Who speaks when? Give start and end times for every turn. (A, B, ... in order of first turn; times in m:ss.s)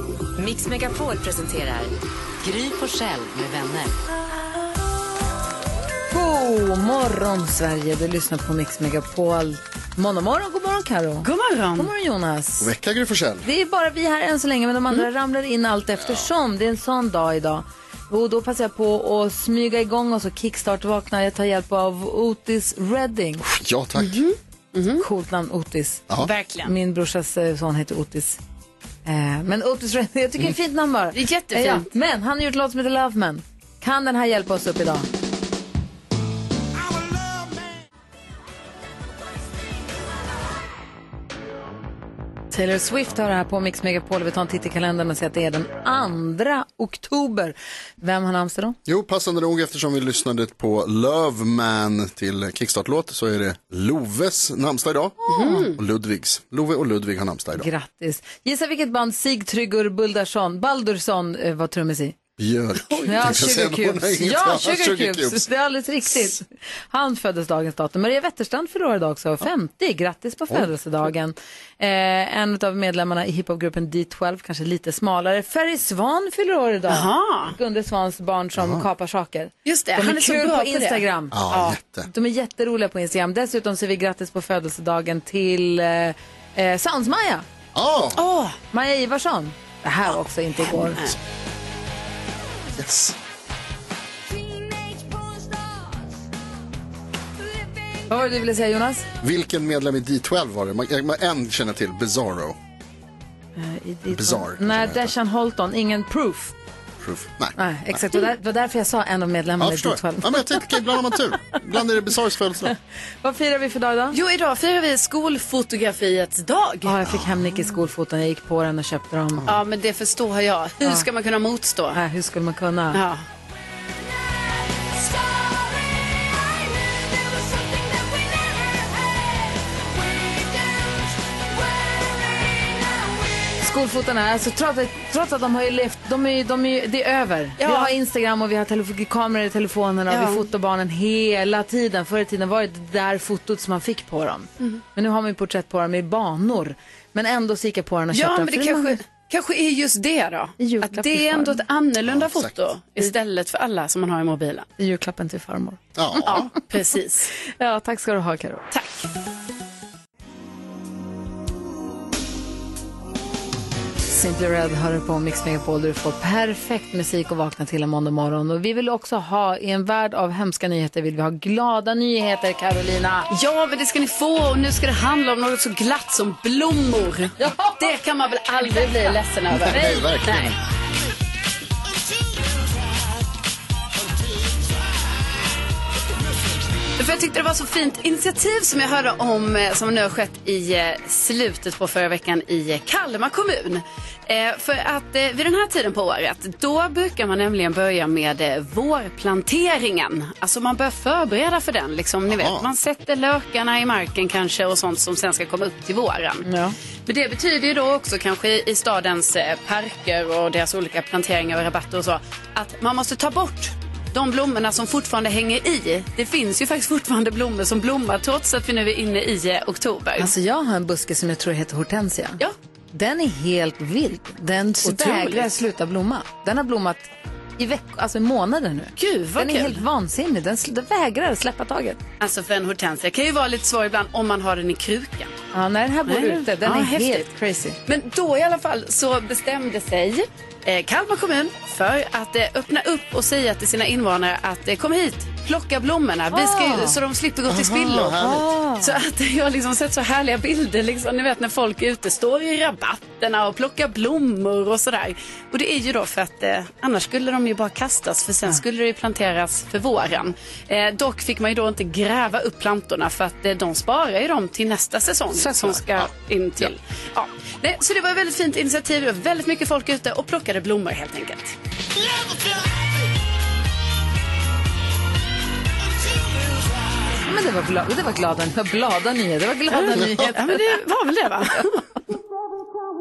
0:00.4-0:03.9 A
0:06.1-0:12.7 B
0:11.2-0:11.9 C
0:12.6-0:13.5 D
0:13.4-0:23.4 B
0:16.0-0:16.2 D
0:23.4-0:24.2 D
0:24.0-0:25.0 C
0:25.0-0:26.1 B
0:26.2-0:26.7 C
0:26.6-0:28.4 B
0:29.0-0:35.1 B
0:31.1-0:31.9 C
0:42.5-0:48.8 B
0:48.8-0:57.7 D
0:55.3-0:55.6 B
0:55.3-0:55.8 C
0:57.6-1:02.2 B
1:02.4-1:05.5 D
1:03.0-1:21.4 B
1:16.9-1:17.5 C
1:18.6-1:18.8 D
1:19.6-1:21.8 C
1:21.3-1:22.1 D
1:22.1-1:27.4 B
1:27.7-1:28.2 D
1:28.2-1:28.6 C
1:28.7-1:31.0 B
1:30.8-1:31.1 C
1:32.7-1:33.2 D
1:38.1-1:39.0 B
1:39.2-1:42.6 D
1:43.6-1:46.5 B
1:44.1-1:45.1 D
1:47.0-1:48.0 D
1:47.6-1:51.1 B
1:49.6-1:52.7 D
1:53.2-1:54.2 B
1:54.1-1:57.0 C
1:56.8-1:59.4 B
1:57.0-1:57.6 D
1:59.4-1:59.6 D
1:59.4-2:02.0 C
2:01.9-2:03.0 B
2:02.9-2:03.2 C
2:13.6-2:29.0 B
2:17.6-2:17.9 C
2:20.1-2:20.4 C
2:28.1-2:34.7 C
2:30.6-2:31.6 B
2:32.0-2:32.5 D
2:34.8-2:35.8 B
2:35.9-2:36.5 D
2:36.2-2:37.3 C
2:37.6-2:38.7 B
2:38.7-2:39.0 C
2:44.1-2:53.3 B
2:53.3-3:00.5 C
2:57.4-2:57.9 B
2:58.6-2:59.1 B
2:59.5-3:00.6 D
2:59.7-3:00.0 B
3:07.0-3:26.4 C
3:22.3-3:22.7 D
3:26.4-3:26.7 B
3:27.0-3:40.3 C
3:40.2-3:42.4 B
3:42.9-3:52.0 B
3:44.8-3:45.5 C
3:49.0-3:49.8 C
3:52.2-3:55.3 C
3:55.5-3:57.8 B
3:56.1-4:08.2 C
4:06.3-4:07.0 B
4:07.5-4:08.5 D
4:08.2-4:08.9 B
4:08.8-4:31.5 C
4:25.4-4:25.8 B
4:37.2-4:40.6 B
4:39.7-4:41.8 C